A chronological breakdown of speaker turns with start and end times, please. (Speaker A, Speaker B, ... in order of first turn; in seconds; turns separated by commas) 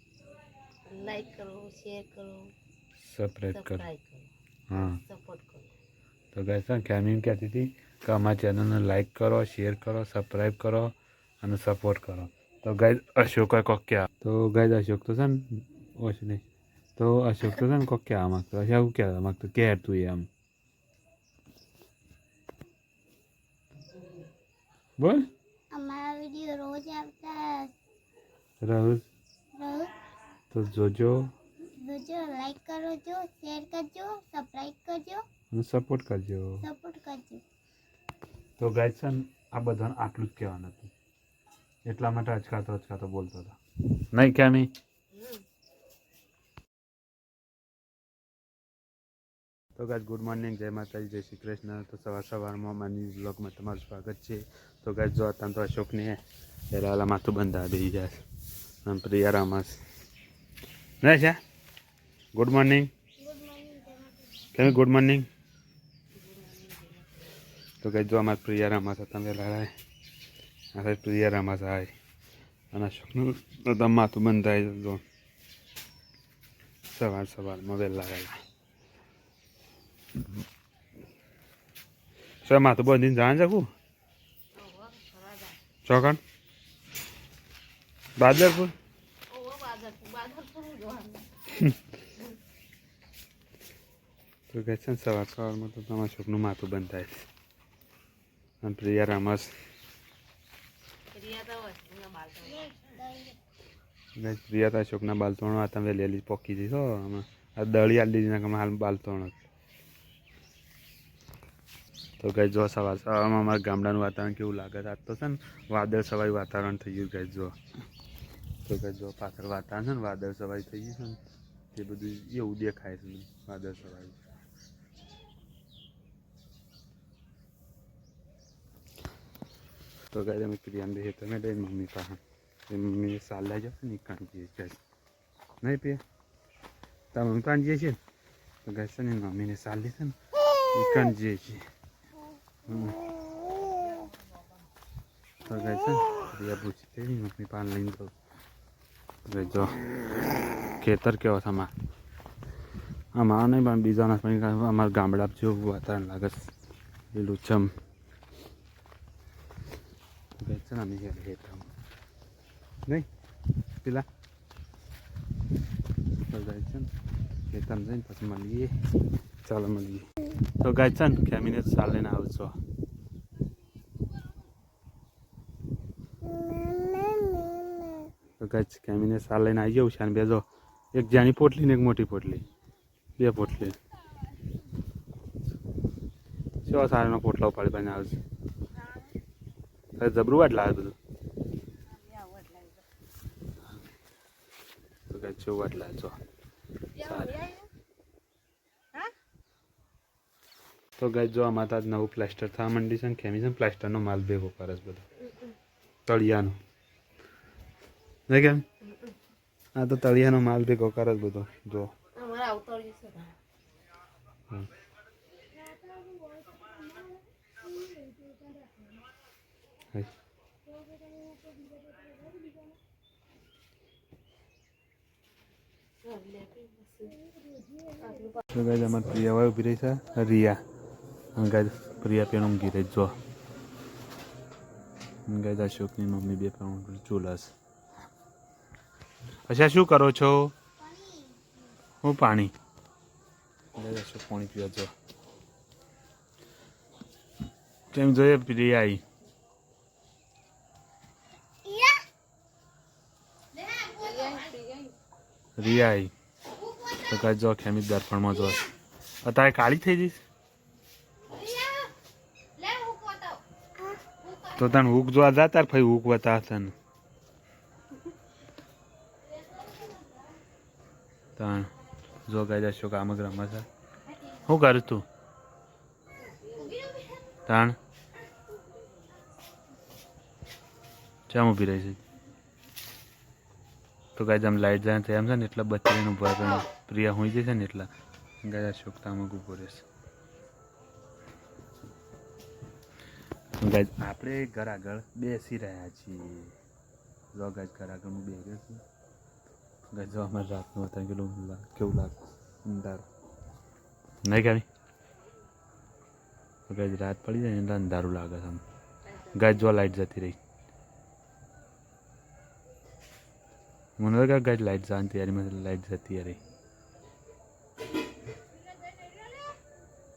Speaker A: 0.9-2.5, Speaker B: 3.0-3.9, Speaker A: 3.5-5.7, Speaker B: 4.7-5.0, Speaker B: 6.3-16.4, Speaker B: 16.9-20.3, Speaker B: 25.0-25.3, Speaker C: 25.7-27.7, Speaker B: 28.6-29.1, Speaker C: 29.6-29.9, Speaker B: 30.5-31.3, Speaker C: 31.8-35.2, Speaker B: 35.5-36.6, Speaker C: 36.6-37.4, Speaker B: 38.6-40.9, Speaker B: 41.9-44.7, Speaker A: 45.1-45.4, Speaker B: 49.8-58.2, Speaker B: 58.8-59.8, Speaker B: 61.0-61.4, Speaker B: 62.4-62.9, Speaker C: 63.2-64.2, Speaker B: 64.5-65.2, Speaker A: 66.1-67.1, Speaker B: 67.8-69.7, Speaker B: 70.7-71.9, Speaker B: 72.7-75.0, Speaker B: 76.9-78.4, Speaker B: 82.4-83.7, Speaker A: 84.5-85.6, Speaker B: 85.8-86.2, Speaker B: 88.2-88.7, Speaker A: 89.3-91.6, Speaker B: 94.5-97.3, Speaker B: 98.6-99.5, Speaker A: 101.1-102.9, Speaker C: 102.5-103.3, Speaker B: 104.2-109.4, Speaker B: 112.2-117.6, Speaker B: 118.6-121.2, Speaker B: 121.7-124.3, Speaker B: 130.1-134.8, Speaker B: 135.6-136.0, Speaker B: 137.1-138.0, Speaker B: 138.7-140.2, Speaker B: 140.7-141.7, Speaker B: 142.7-143.0, Speaker B: 145.4-148.1, Speaker B: 149.2-149.8, Speaker B: 150.8-151.7, Speaker B: 153.2-156.5, Speaker B: 157.1-157.7, Speaker B: 160.4-161.7, Speaker B: 166.3-166.9, Speaker B: 167.5-168.7, Speaker B: 169.4-170.1, Speaker B: 170.6-172.6, Speaker B: 178.4-182.4, Speaker B: 183.2-183.8, Speaker B: 186.7-188.2, Speaker A: 188.8-189.1, Speaker B: 190.0-191.0, Speaker A: 191.9-192.8, Speaker B: 195.1-196.2, Speaker A: 197.0-197.7, Speaker B: 197.0-197.4, Speaker B: 201.0-205.1, Speaker B: 206.1-206.6, Speaker B: 208.3-208.7, Speaker A: 208.8-209.2, Speaker B: 209.8-211.9, Speaker A: 212.2-213.3, Speaker A: 226.0-227.2, Speaker A: 228.0-228.4, Speaker B: 228.5-230.6, Speaker B: 231.3-233.2, Speaker B: 235.3-237.5, Speaker B: 239.5-240.6, Speaker C: 240.8-241.4, Speaker B: 242.0-242.5, Speaker B: 243.8-244.9, Speaker B: 247.9-249.0, Speaker A: 253.6-254.9, Speaker B: 255.6-256.1, Speaker B: 256.9-258.7, Speaker B: 259.2-260.2, Speaker A: 261.6-261.9, Speaker A: 262.6-263.4, Speaker B: 264.5-266.8, Speaker B: 271.4-271.7, Speaker B: 272.3-273.7, Speaker B: 274.4-275.1, Speaker A: 276.2-277.1, Speaker B: 277.5-277.8, Speaker B: 281.3-282.0, Speaker B: 284.2-287.9, Speaker B: 288.4-289.9, Speaker B: 293.6-296.6, Speaker B: 297.3-298.8, Speaker B: 299.9-303.1, Speaker B: 304.2-304.7, Speaker B: 306.7-308.6, Speaker A: 309.1-309.6, Speaker B: 309.3-310.4, Speaker B: 314.0-316.4